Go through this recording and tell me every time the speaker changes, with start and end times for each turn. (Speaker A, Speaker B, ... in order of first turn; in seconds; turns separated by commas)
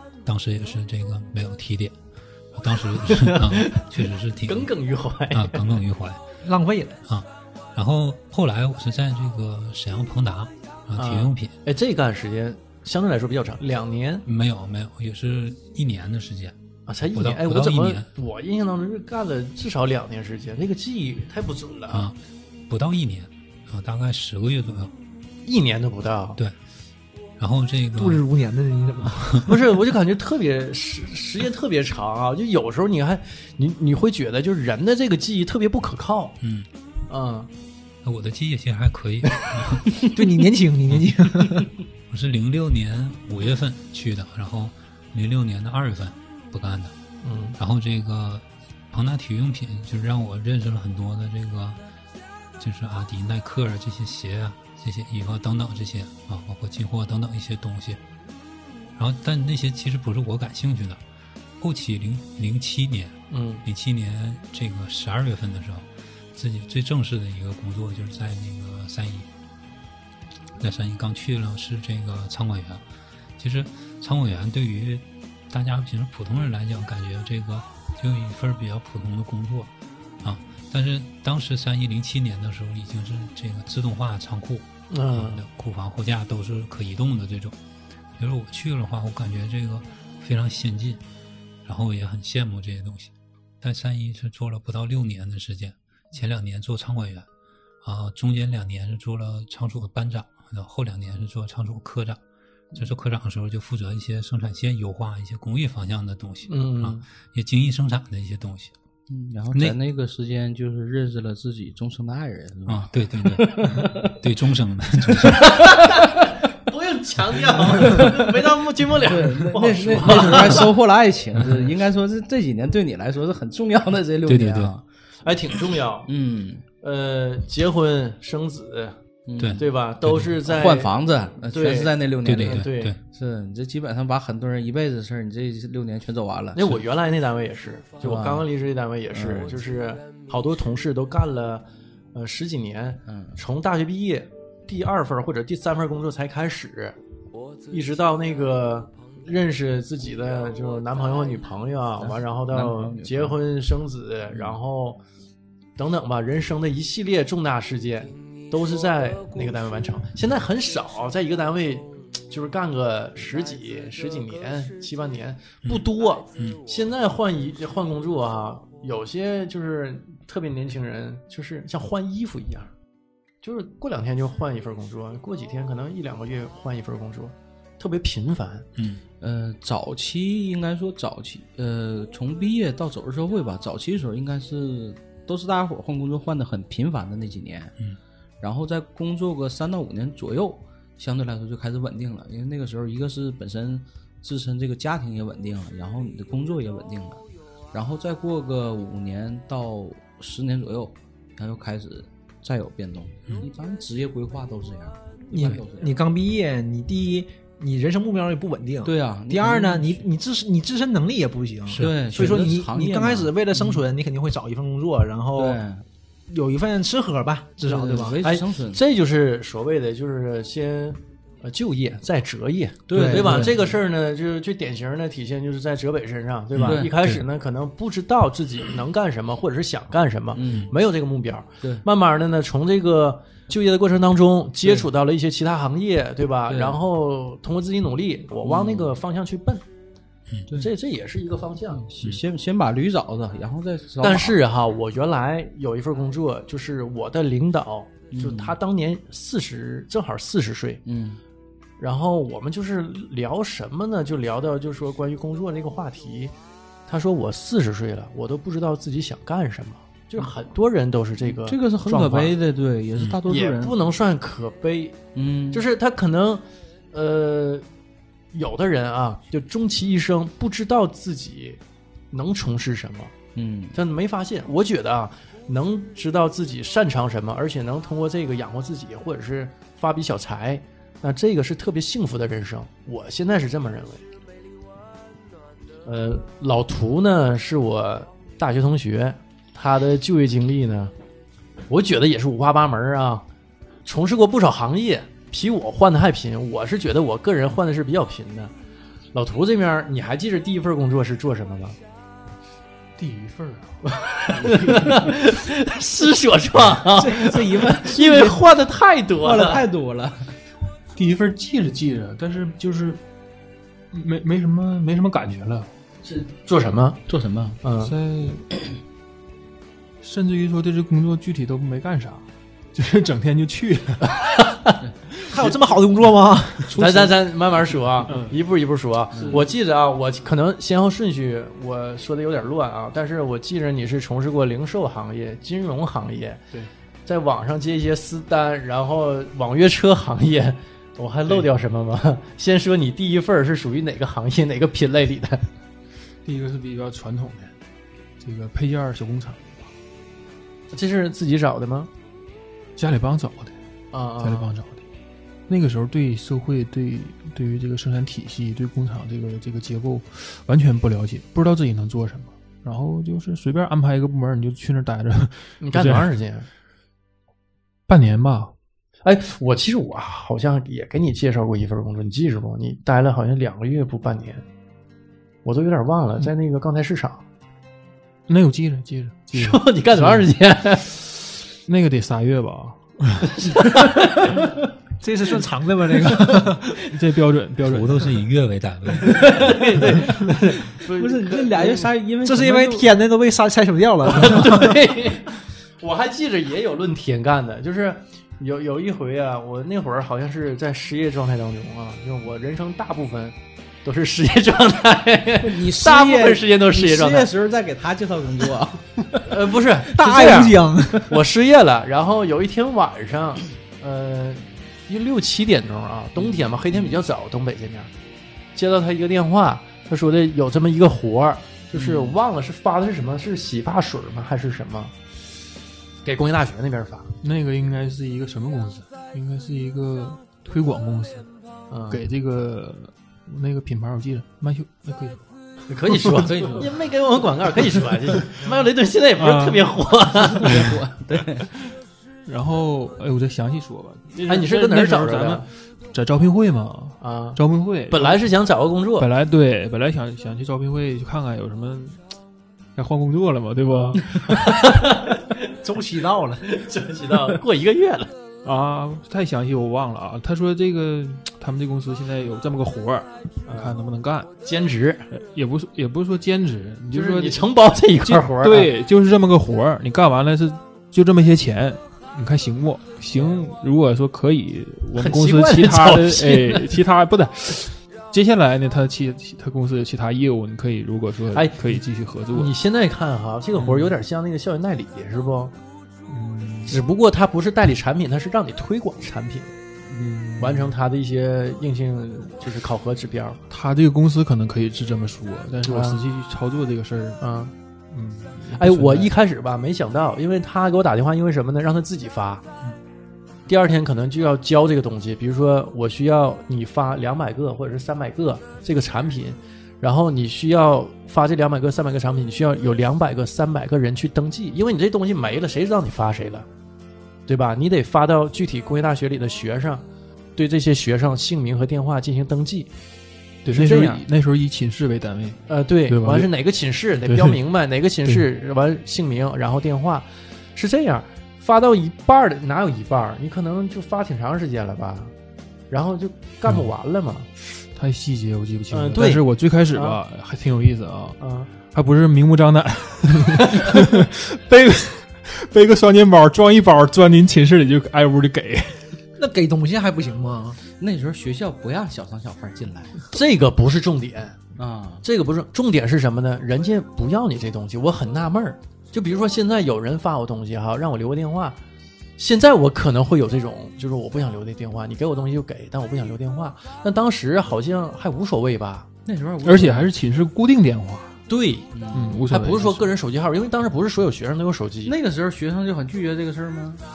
Speaker A: 0.2-1.9, Speaker A: 2.5-4.7, Speaker B: 3.0-5.7, Speaker A: 5.3-6.2, Speaker C: 6.4-7.0, Speaker A: 7.0-11.5, Speaker B: 11.0-14.2, Speaker A: 14.2-16.6, Speaker B: 16.9-22.1, Speaker A: 17.1-18.1, Speaker A: 21.9-22.2, Speaker A: 22.7-24.9, Speaker B: 25.4-26.4, Speaker A: 27.4-28.2, Speaker C: 27.9-29.5, Speaker A: 29.1-29.4, Speaker B: 29.4-36.4, Speaker A: 36.4-36.7, Speaker B: 37.1-37.5, Speaker A: 38.0-39.9, Speaker C: 40.0-41.7, Speaker A: 40.9-41.2, Speaker A: 42.1-46.9, Speaker B: 47.2-47.6, Speaker A: 47.6-51.8, Speaker A: 52.6-58.0, Speaker A: 59.0-61.0, Speaker A: 61.6-69.3, Speaker B: 63.3-63.6, Speaker A: 70.6-72.8, Speaker A: 73.4-79.7, Speaker A: 80.2-87.6, Speaker B: 84.9-85.4, Speaker A: 88.2-91.0, Speaker A: 91.6-97.3, Speaker A: 97.8-102.2, Speaker A: 102.7-108.7, Speaker B: 106.5-107.0, Speaker D: 109.1-114.2, Speaker A: 112.7-115.8, Speaker D: 115.1-116.3, Speaker B: 115.4-120.7, Speaker D: 117.6-124.8, Speaker A: 124.2-124.7, Speaker B: 125.2-126.1, Speaker D: 126.1-126.6, Speaker B: 126.8-129.0, Speaker D: 129.3-129.6, Speaker A: 129.4-130.3, Speaker B: 129.6-130.9, Speaker D: 130.4-136.8, Speaker B: 131.5-132.9, Speaker A: 132.2-133.0, Speaker B: 136.5-147.0, Speaker D: 138.0-138.4, Speaker D: 139.1-139.5, Speaker D: 143.1-143.4, Speaker B: 147.7-155.0, Speaker D: 152.0-153.4, Speaker D: 154.3-154.6, Speaker B: 155.8-172.7, Speaker B: 173.4-178.7, Speaker A: 178.8-179.0, Speaker D: 179.2-187.7, Speaker D: 188.4-197.2, Speaker D: 197.7-206.0, Speaker C: 205.3-215.6, Speaker D: 208.8-210.0, Speaker A: 211.7-211.9, Speaker D: 211.8-213.8, Speaker D: 215.3-215.8, Speaker C: 216.3-218.2, Speaker D: 217.6-218.8, Speaker B: 217.7-239.6, Speaker D: 222.9-223.8, Speaker C: 222.9-223.5, Speaker A: 226.5-227.2, Speaker D: 226.6-226.9, Speaker D: 230.3-230.7, Speaker D: 236.5-236.8, Speaker D: 238.4-239.0, Speaker B: 240.5-241.8, Speaker D: 241.7-244.4, Speaker B: 244.0-250.8, Speaker D: 248.1-248.6, Speaker D: 250.8-251.2, Speaker B: 251.8-256.3, Speaker B: 256.9-262.3, Speaker D: 261.2-263.7, Speaker B: 263.3-265.0, Speaker D: 265.1-265.6, Speaker B: 265.5-267.6, Speaker B: 268.3-271.6, Speaker B: 272.1-273.1, Speaker D: 273.4-273.8, Speaker B: 273.7-284.1, Speaker B: 285.8-290.9, Speaker B: 291.7-293.2, Speaker B: 293.8-298.5, Speaker B: 299.1-301.8, Speaker E: 303.0-305.3, Speaker B: 303.8-309.6, Speaker D: 306.9-308.4, Speaker D: 309.2-310.3, Speaker E: 310.9-313.0, Speaker E: 313.9-315.7, Speaker B: 316.0-317.0, Speaker D: 317.1-317.6, Speaker B: 317.6-317.9, Speaker E: 317.8-318.5, Speaker E: 320.0-324.4, Speaker B: 324.2-324.8, Speaker C: 325.3-327.0, Speaker D: 326.7-327.1, Speaker B: 326.7-336.4, Speaker E: 328.0-328.4, Speaker D: 329.1-329.4, Speaker E: 329.1-329.5, Speaker B: 337.1-345.5, Speaker E: 346.2-347.5, Speaker E: 348.2-349.7, Speaker B: 350.7-351.9, Speaker E: 352.8-353.6, Speaker B: 353.9-354.5, Speaker E: 354.2-354.8, Speaker E: 355.5-366.1, Speaker B: 365.6-366.5, Speaker E: 367.9-368.5, Speaker B: 369.0-374.4, Speaker B: 375.4-377.2, Speaker E: 378.3-380.3, Speaker B: 379.3-380.9, Speaker E: 381.6-383.4, Speaker B: 383.3-384.5, Speaker C: 385.0-386.7, Speaker E: 386.7-388.2, Speaker A: 387.6-389.5, Speaker D: 389.1-389.6, Speaker B: 389.2-391.9, Speaker D: 390.7-392.9, Speaker C: 392.2-394.8, Speaker B: 394.1-407.3, Speaker D: 405.4-409.2, Speaker B: 409.2-417.9, Speaker C: 409.9-411.1, Speaker D: 416.2-417.0, Speaker B: 418.5-424.9, Speaker D: 421.7-422.2, Speaker B: 426.0-427.1, Speaker E: 427.2-431.3, Speaker B: 431.7-432.0, Speaker E: 431.9-435.3, Speaker B: 435.7-440.7, Speaker E: 435.9-436.2, Speaker D: 436.1-436.7, Speaker E: 439.2-439.7, Speaker D: 440.3-441.5, Speaker E: 440.4-440.8, Speaker E: 442.2-448.3, Speaker B: 444.2-445.4, Speaker B: 447.0-449.1, Speaker E: 449.0-452.0, Speaker E: 452.8-454.8, Speaker B: 453.7-455.4, Speaker C: 455.6-456.5, Speaker B: 456.5-458.1, Speaker E: 458.4-464.3, Speaker B: 463.4-463.8, Speaker B: 464.4-465.1, Speaker E: 465.1-467.5, Speaker B: 466.9-468.7, Speaker E: 468.0-482.5, Speaker B: 474.9-476.8, Speaker B: 481.3-485.5, Speaker E: 483.6-484.0, Speaker E: 486.1-486.8, Speaker B: 486.7-489.5, Speaker E: 489.8-490.7, Speaker B: 490.4-493.4, Speaker E: 493.5-497.2, Speaker B: 495.6-496.0, Speaker B: 497.2-497.5, Speaker E: 497.9-499.1, Speaker B: 498.6-502.4, Speaker B: 503.5-516.5, Speaker B: 517.3-519.8, Speaker B: 520.4-522.7, Speaker E: 523.4-526.3, Speaker B: 523.5-524.0, Speaker B: 525.5-535.1, Speaker E: 527.0-527.4, Speaker B: 535.7-537.3, Speaker E: 537.7-549.0, Speaker B: 538.7-540.0, Speaker B: 541.2-541.5, Speaker C: 549.2-550.6, Speaker D: 550.8-553.0, Speaker B: 553.1-554.4, Speaker D: 554.6-555.0, Speaker B: 555.0-561.6, Speaker B: 562.2-568.9, Speaker D: 569.0-569.9, Speaker E: 569.4-571.2, Speaker B: 571.3-571.7, Speaker D: 571.7-572.2, Speaker E: 571.9-572.9, Speaker B: 572.3-574.9, Speaker D: 574.8-576.8